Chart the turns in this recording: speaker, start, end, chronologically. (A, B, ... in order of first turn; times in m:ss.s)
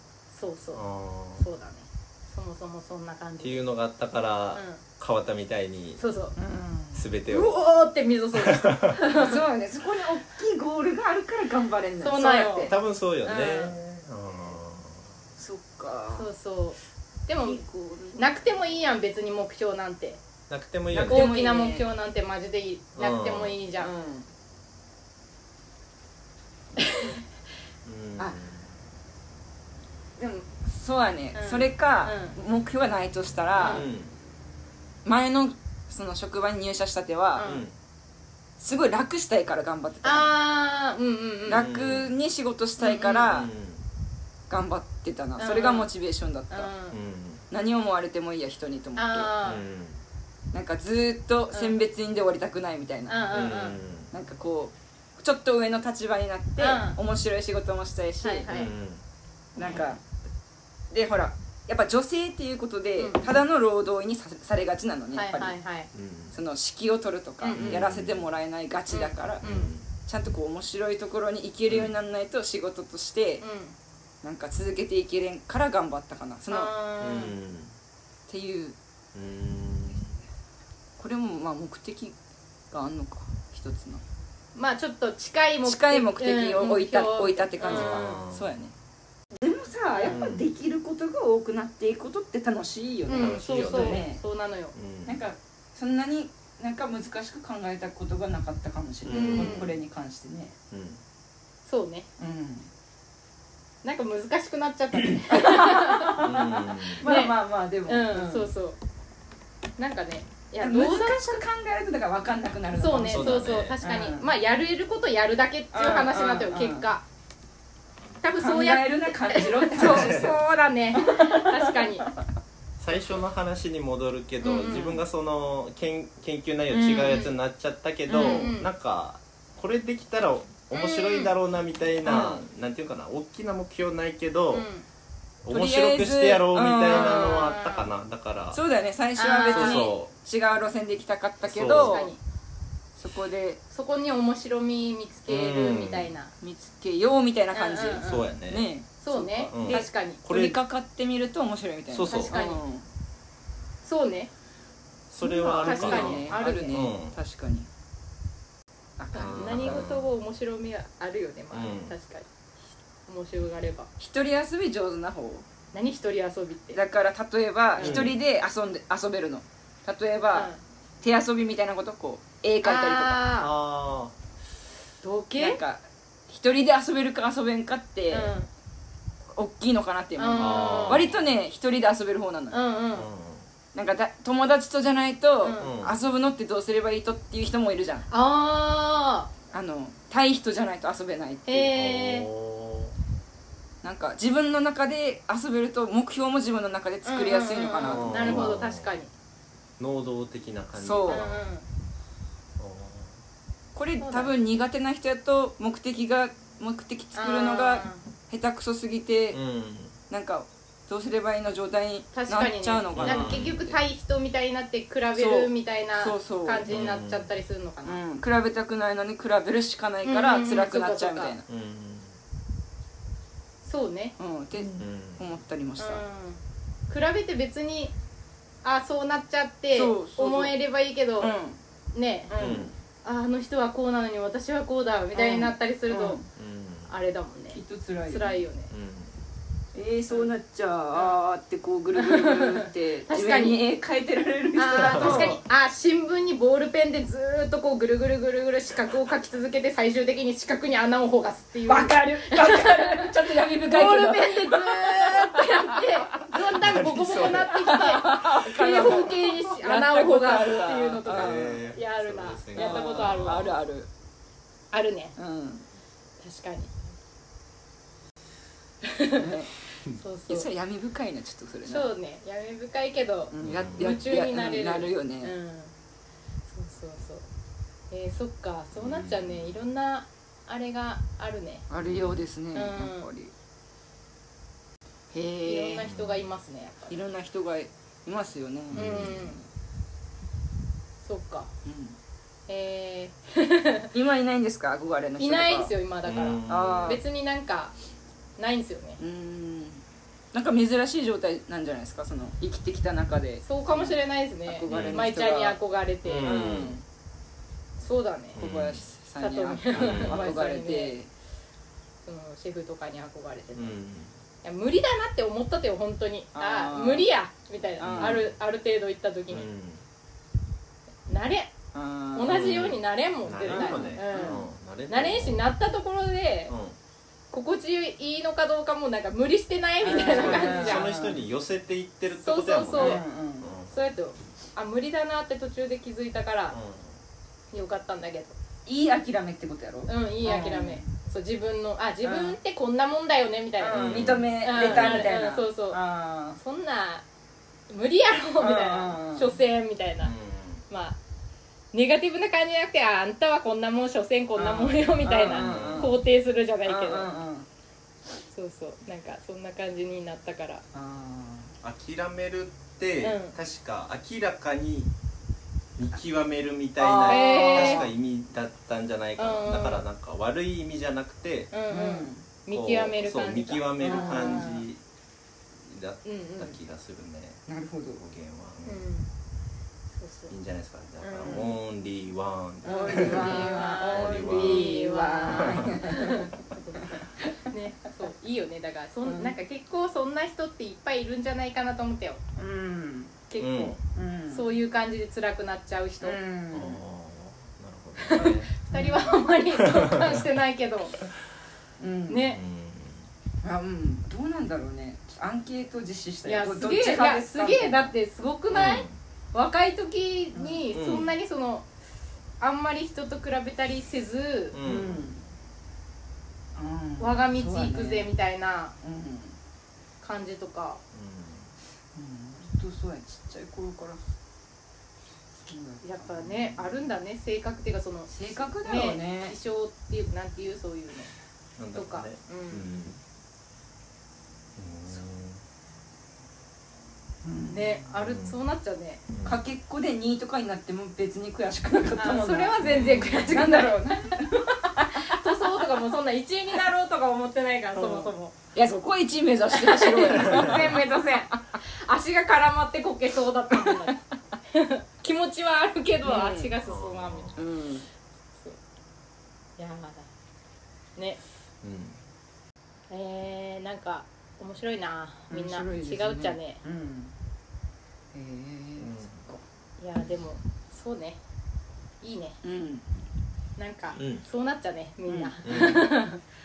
0:00.3-0:00.8 A
0:00.7-0:01.4 B
0:01.4-0:03.6 A
0:03.4-0:06.0 B
0:04.5-0:04.8 A
0:06.0-0:06.3 A
0:06.4-0:07.1 C
0:06.9-0:07.6 B
0:07.3-0:09.4 A
0:08.3-0:09.0 B
0:09.1-0:12.7 C
0:12.0-0:12.7 A
0:12.7-0:15.1 B
0:13.3-0:13.7 A
0:13.4-0:13.8 C
0:15.4-0:16.3 C
0:16.1-0:17.6 A
0:17.4-0:18.5 C
0:18.2-0:20.2 A
0:20.5-0:21.3 B
0:20.9-0:21.8 C
0:21.1-0:23.9 A
0:23.0-0:23.6 B
0:23.8-0:24.3 C
0:26.8-0:27.2 A
0:27.8-0:28.7 B
0:30.2-0:33.8 C
0:31.3-0:32.3 A
0:33.6-0:33.8 A
0:33.6-0:34.1 B
0:35.0-0:37.5 C
0:37.4-0:37.6 A
0:37.4-0:37.7 B
0:38.6-0:40.3 C
0:40.0-0:41.6 A
0:41.5-0:43.5 C
0:41.5-0:42.1 B
0:42.8-0:43.3 A
0:43.2-0:43.8 B
0:44.5-0:46.7 C
0:45.4-0:45.9 A
0:46.5-0:46.9 A
0:46.9-0:47.4 B
0:47.5-0:49.3 C
0:49.0-0:49.6 A
0:49.4-0:50.0 B
0:50.5-0:53.5 C
0:51.5-0:51.8 A
0:53.1-0:53.8 A
0:53.3-0:54.1 B
0:54.1-0:58.5 C
0:56.6-0:57.0 A
0:58.2-0:58.7 A
0:58.5-0:59.0 B
0:59.6-1:00.0 C
1:00.9-1:05.6 C
1:03.0-1:03.2 A
1:05.1-1:05.9 A
1:05.9-1:06.3 B
1:06.3-1:09.4 C
1:07.4-1:07.8 A
1:07.6-1:08.3 B
1:08.9-1:09.7 A
1:09.4-1:09.9 B
1:10.0-1:13.4 C
1:11.7-1:11.9 B
1:13.4-1:13.7 A
1:14.2-1:16.7 C
1:16.5-1:17.3 A
1:17.0-1:17.7 B
1:18.3-1:18.8 C
1:19.1-1:20.2 B
1:21.0-1:22.2 C
1:22.7-1:24.0 C
1:24.5-1:28.2 A
1:25.6-1:28.7 C
1:27.6-1:28.6 B
1:29.4-1:34.2 C
1:29.9-1:30.2 A
1:30.1-1:30.5 B
1:33.1-1:34.7 A
1:33.2-1:34.0 B
1:34.7-1:35.2 B
1:35.1-1:40.5 C
1:39.0-1:39.8 B
1:39.1-1:39.7 A
1:40.7-1:41.0 B
1:41.6-1:42.1 A
1:42.2-1:42.7 C
1:43.8-1:46.3 A
1:45.1-1:48.5 C
1:46.2-1:47.0 B
1:47.0-1:47.3 A
1:47.8-1:48.8 A
1:49.8-1:51.4 A
1:50.6-1:54.3 C
1:52.7-1:57.0 A
1:53.0-1:53.8 B
1:55.7-1:56.9 C
1:58.2-2:02.1 A
1:58.4-2:00.4 C
1:59.8-2:00.4 B
2:00.9-2:02.1 C
2:02.8-2:14.7 B
2:04.4-2:04.9 A
2:04.7-2:05.0 C
2:06.7-2:07.3 A
2:06.7-2:07.2 C
2:08.1-2:08.5 C
2:08.1-2:08.7 A
2:10.7-2:11.3 A
2:12.0-2:12.4 C
2:14.5-2:14.8 A
2:15.4-2:18.6 B
2:15.5-2:17.5 C
2:16.9-2:17.9 A
2:18.5-2:22.1 C
2:19.2-2:19.9 A
2:19.5-2:20.1 B
2:21.4-2:22.0 B
2:21.7-2:22.2 A
2:23.0-2:23.6 C
2:23.7-2:26.3 A
2:25.3-2:26.1 B
2:26.4-2:32.8 C
2:27.5-2:28.3 A
2:28.0-2:28.7 B
2:29.0-2:30.2 A
2:29.5-2:30.6 B
2:31.9-2:32.4 B
2:32.1-2:32.6 A
2:33.8-2:34.3 A
2:35.1-2:37.2 B
2:35.2-2:37.7 C
2:35.2-2:36.9 A
2:39.0-2:39.9 C
2:39.1-2:42.3 A
2:39.2-2:40.1 B
2:41.5-2:41.9 B
2:43.0-2:43.9 A
2:44.0-2:45.4 C
2:45.7-2:46.8 A
2:46.7-2:50.5 C
2:47.8-2:48.1 A
2:47.8-2:48.2 B
2:50.3-2:50.6 A
2:51.0-2:53.2 C
2:52.6-2:53.5 A
2:53.4-2:54.1 B
2:55.0-2:55.6 A
2:55.4-2:58.3 C
2:58.1-2:58.5 A
2:59.4-3:02.6 C
3:00.2-3:01.1 A
3:00.4-3:01.2 B
3:02.5-3:03.1 A
3:02.9-3:03.5 B
3:03.7-3:08.1 C
3:05.4-3:05.7 A
3:05.6-3:06.0 B
3:08.1-3:09.3 A
3:09.5-3:11.6 C
3:11.5-3:12.3 A
3:11.6-3:13.0 B
3:13.8-3:18.5 C
3:17.0-3:19.1 A
3:17.8-3:18.9 B
3:19.8-3:21.4 B
3:20.8-3:21.2 C
3:21.1-3:21.6 A
3:22.6-3:23.1 B
3:23.7-3:29.4 C
3:24.0-3:24.3 A
3:27.2-3:28.0 A
3:29.3-3:29.9 B
3:30.1-3:33.8 C
3:32.1-3:38.0 A
3:32.9-3:33.6 B
3:35.1-3:36.7 C
3:36.7-3:37.3 B
3:37.8-3:41.4 C
3:40.0-3:41.3 A
3:41.5-3:42.2 B
3:43.6-3:44.7 A
3:44.2-3:46.0 C
3:44.8-3:45.2 B
3:45.8-3:47.9 A
3:48.6-3:51.3 A
3:49.7-3:50.6 C
3:51.2-3:51.6 C
3:51.9-3:52.3 A
3:52.3-3:52.7 C
3:52.4-3:52.7 B
3:53.0-3:56.2 A
3:55.1-3:56.2 C
3:56.4-3:56.9 B
3:56.9-3:58.7 A
3:57.5-3:58.4 C
3:58.7-3:59.1 B
3:59.7-4:05.4 C
4:00.9-4:01.2 A
4:01.9-4:03.6 A
4:04.6-4:23.5 A
4:04.8-4:05.4 B
4:11.7-4:21.6 C
4:16.5-4:17.5 B
4:21.1-4:23.5 B
4:22.6-4:23.9 C
4:24.7-4:25.2 A
4:25.2-4:25.6 C
4:26.2-4:26.7 A
4:28.8-4:29.3 A
4:29.2-4:29.5 C
4:29.9-4:30.5 A
4:30.3-4:31.9 C
4:31.6-4:35.7 A
4:33.3-4:35.3 C
4:33.4-4:33.9 B
4:36.5-4:37.2 A
4:37.9-4:41.6 A
4:38.7-4:39.6 B
4:41.7-4:43.3 C
4:41.8-4:42.2 B
4:42.5-4:43.1 A
4:45.1-4:45.9 C
4:45.4-4:47.0 A
4:45.8-4:46.3 B
4:46.9-4:49.3 C
4:48.7-4:49.4 B
4:48.7-4:49.4 A
4:51.0-4:51.5 A
4:51.6-4:52.0 C
4:52.5-4:53.9 A
4:53.9-4:55.7 C
4:55.2-4:57.7 A
4:56.0-4:57.0 B
4:56.5-4:57.0 C
4:58.4-4:59.0 A
4:59.0-5:05.6 C
5:03.4-5:06.6 A
5:04.7-5:05.0 B
5:06.0-5:06.8 B
5:06.2-5:06.8 C
5:07.8-5:08.4 A
5:08.3-5:11.1 C
5:08.4-5:08.8 B
5:09.2-5:11.0 A
5:09.7-5:10.3 B
5:12.0-5:13.8 A
5:13.5-5:14.1 B
5:14.4-5:19.5 A
5:16.3-5:17.1 C
5:17.8-5:18.2 C
5:17.8-5:18.3 B
5:19.3-5:19.8 B
5:21.1-5:21.5 A
5:21.7-5:22.3 C
5:22.1-5:26.5 A
5:22.3-5:25.4 B
5:23.5-5:24.4 C
5:26.5-5:26.8 B
5:27.3-5:30.9 A
5:29.8-5:31.2 C
5:30.1-5:33.7 B
5:32.2-5:33.0 A
5:32.7-5:33.5 C
5:33.7-5:36.6 A
5:36.5-5:37.0 B
5:37.5-5:38.4 A
5:38.6-5:40.8 C
5:39.9-5:45.8 A
5:42.0-5:42.4 C
5:43.6-5:46.4 C
5:43.7-5:45.1 B
5:46.4-5:47.0 A
5:47.7-5:50.1 A
5:48.4-5:49.4 C
5:50.0-5:50.6 B
5:50.7-5:51.0 A
5:51.7-5:57.1 A
5:54.4-5:56.0 C
5:55.4-5:55.9 B
5:56.6-5:57.4 C
5:58.3-6:00.6 A
6:00.7-6:01.5 C
6:01.6-6:04.9 B
6:03.0-6:03.3 A
6:05.8-6:11.5 B
6:06.8-6:07.9 C
6:07.0-6:07.8 A
6:09.2-6:09.8 A
6:11.5-6:14.6 A
6:11.7-6:12.2 C
6:12.5-6:14.8 B
6:13.8-6:14.5 C
6:15.6-6:17.4 B
6:16.0-6:16.5 A
6:17.5-6:18.0 C
6:18.0-6:18.8 B
6:18.6-6:19.1 A
6:20.0-6:20.3 A
6:20.3-6:24.8 B
6:21.0-6:21.5 A
6:21.2-6:21.5 C
6:22.6-6:32.2 A
6:22.6-6:27.3 C
6:25.4-6:25.7 B
6:29.0-6:29.3 C
6:32.4-6:33.1 C
6:33.3-6:36.2 A
6:33.4-6:33.8 B
6:33.9-6:34.4 C
6:36.0-6:36.8 C
6:36.5-6:38.6 B
6:38.0-6:41.0 A
6:38.7-6:39.2 C
6:39.6-6:40.2 B
6:41.8-6:42.2 C
6:42.1-6:42.4 A
6:42.3-6:43.1 B
6:43.4-6:47.9 C
6:46.2-6:51.7 A
6:48.5-6:49.0 B
6:50.3-6:50.6 C
6:50.7-6:51.1 B
6:52.4-6:54.6 A
6:54.5-6:55.1 B
6:54.6-6:55.2 C
6:56.5-6:58.1 C
6:57.0-6:58.7 A
6:58.8-6:59.4 C
7:00.0-7:00.8 A
7:00.9-7:01.5 B
7:01.9-7:04.0 C
7:05.4-7:06.8 C
7:05.8-7:11.1 A
7:08.1-7:09.4 C
7:11.6-7:13.0 B
7:11.7-7:12.6 A
7:14.6-7:15.4 B
7:17.2-7:17.8 C
7:17.5-7:19.0 A
7:18.0-7:18.4 B
7:19.1-7:19.4 B
7:19.2-7:25.2 C
7:22.0-7:24.2 A
7:22.6-7:23.4 B
7:24.8-7:28.4 A
7:27.8-7:31.6 C
7:29.5-7:34.0 A
7:30.2-7:30.7 B
7:33.5-7:34.0 C
7:34.5-7:37.4 A
7:36.0-7:36.5 C
7:36.6-7:37.4 B
7:37.4-7:37.9 C
7:39.6-7:40.1 A
7:41.6-7:42.0 B
7:42.9-7:46.6 A
7:45.3-7:47.1 C
7:48.1-7:49.4 C
7:48.8-7:49.2 B
7:49.8-7:51.2 A
7:52.0-7:52.4 A
7:52.4-7:52.9 C
7:53.6-7:56.2 A
7:53.9-7:54.2 B
7:55.1-7:55.7 C
7:55.4-7:55.8 B